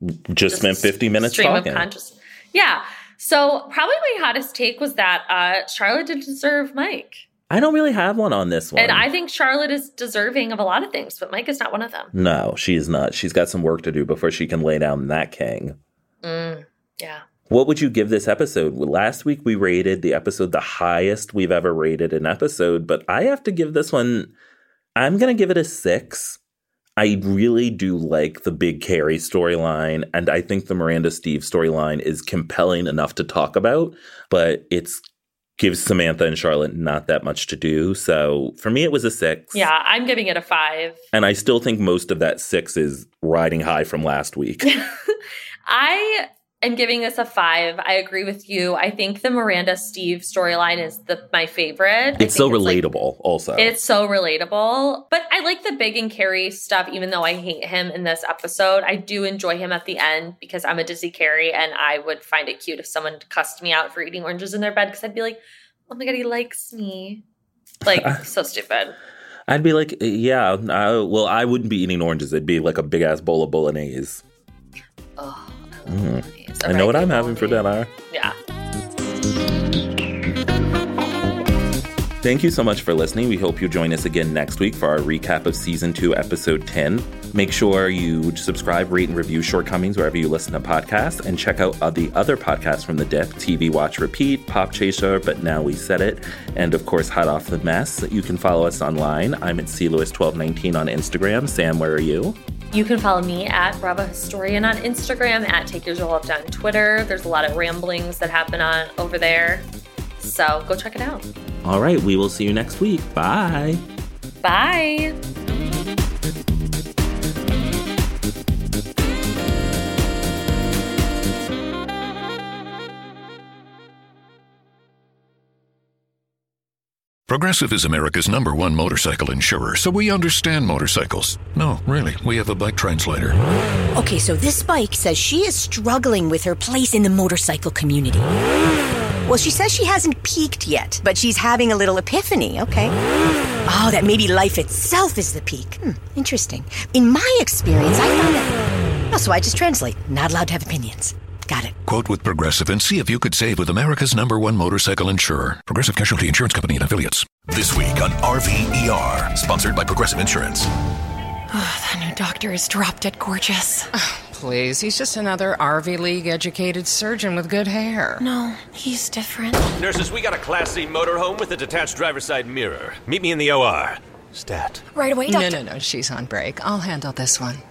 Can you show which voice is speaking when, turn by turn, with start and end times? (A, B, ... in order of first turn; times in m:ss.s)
0:00.3-0:01.9 A
0:00.5-0:07.2 B
0:07.5-0:09.1 A
0:08.8-0:12.1 B
0:12.1-0:15.8 A
0:16.2-0:17.2 B
0:17.5-0:24.3 A
0:25.0-0:26.4 A
0:27.0-0:35.0 A
0:35.6-0:39.7 A
0:39.5-0:41.0 B
0:41.1-0:44.7 A
0:44.6-0:52.8 B
0:52.2-0:53.7 A
0:53.6-1:07.2 B
1:07.8-1:09.0 B
1:07.9-1:08.2 A
1:09.5-1:14.2 A
1:15.2-1:18.3 B
1:15.9-1:17.9 A
1:22.2-1:42.4 A
1:42.7-1:49.6 B
1:50.2-1:51.3 B
1:51.6-1:53.8 A
1:54.4-1:55.1 B
2:07.3-2:13.4 C
2:13.9-2:18.3 D
2:19.2-2:23.0 D
2:23.6-2:31.8 D
2:31.8-2:40.7 C
2:41.5-2:43.9 E
2:44.2-2:48.2 F
2:48.2-2:49.8 E
2:49.8-2:54.8 G
2:54.9-2:55.6 E
2:55.3-2:57.6 F